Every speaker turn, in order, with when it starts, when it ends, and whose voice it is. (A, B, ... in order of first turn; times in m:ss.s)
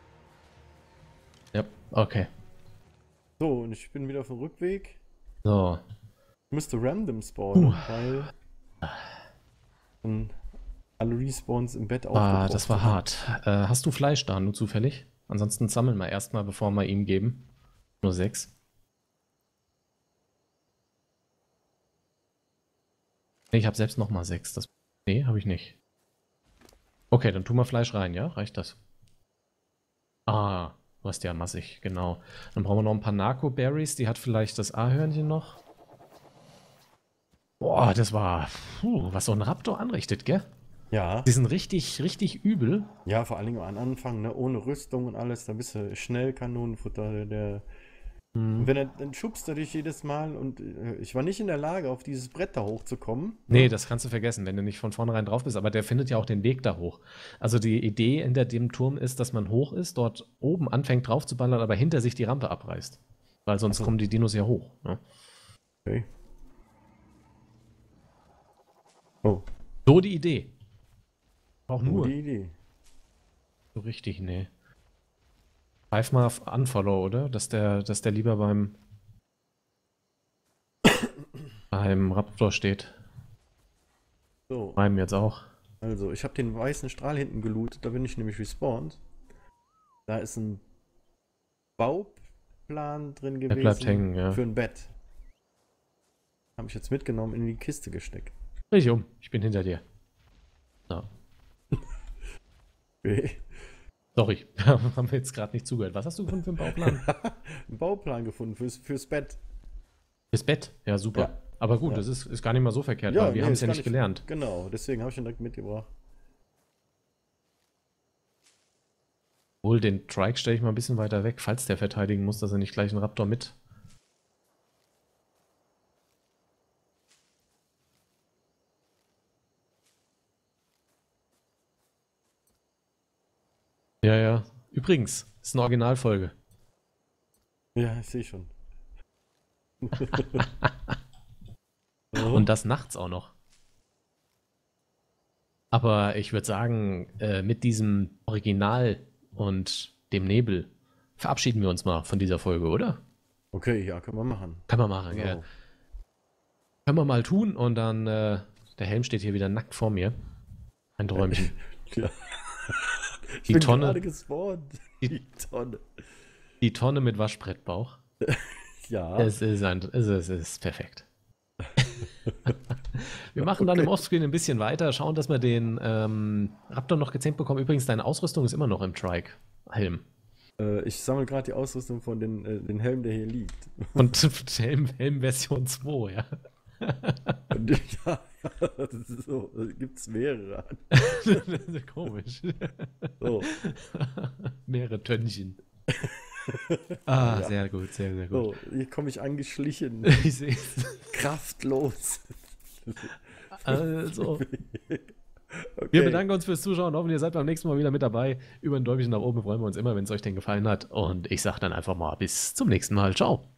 0:01.5-0:02.3 A
0:03.4-0:05.0 B
0:05.4-0:05.8 A
0:06.5-0:08.3 B
0:07.6-0:08.1 A
0:10.0-0:10.4 B
0:11.0-0:13.1 B
0:12.1-0:17.5 A
0:18.0-0:18.5 A
0:23.5-0:25.8 A
0:27.1-0:28.8 A
0:30.3-0:35.6 A
0:37.6-0:40.5 A
0:40.9-0:41.3 B
0:41.2-0:42.9 A
0:43.1-0:47.6 B
0:48.4-0:48.7 A
0:48.6-0:53.8 B
0:53.5-1:05.0 A
1:03.7-1:03.9 B
1:09.9-1:10.5 A
1:11.7-1:12.1 A
1:11.8-1:12.6 B
1:13.8-1:14.5 A
1:15.9-1:18.8 A
1:21.7-1:23.0 A
1:24.5-1:24.8 B
1:24.8-1:25.5 A
1:25.8-1:29.0 B
1:30.1-1:30.6 B
1:31.8-1:34.9 B
1:33.5-1:34.4 A
1:36.6-1:38.3 B
1:38.7-1:39.8 A
1:43.0-1:43.4 B
1:44.1-1:47.0 A
1:46.6-1:49.4 B
1:50.3-1:54.2 A
1:53.1-1:55.9 B
1:59.6-2:03.6 A
2:14.0-2:16.3 A
2:17.8-2:18.5 B
2:19.8-2:20.5 B
2:20.4-2:21.0 A
2:22.1-2:22.5 B
2:22.1-2:23.3 A
2:25.7-2:33.0 A
2:33.5-2:35.4 B
2:34.7-2:35.4 A
2:36.9-2:40.1 A
2:41.0-2:41.5 A
2:41.2-2:45.8 B
2:43.5-2:44.0 A
2:46.6-2:48.0 A
2:48.2-2:49.3 B
2:49.2-2:51.1 A
2:51.8-3:00.0 A
2:52.2-2:52.5 B
2:53.4-2:53.9 B
3:00.6-3:04.1 B
3:04.0-3:06.3 A
3:06.8-3:07.4 A
3:07.5-3:11.4 B
3:10.9-3:15.6 A
3:13.2-3:13.5 B
3:15.9-3:17.5 B
3:17.1-3:18.5 A
3:18.3-3:20.3 B
3:20.1-3:21.1 A
3:21.0-3:26.2 B
3:23.5-3:24.4 A
3:25.9-3:33.5 A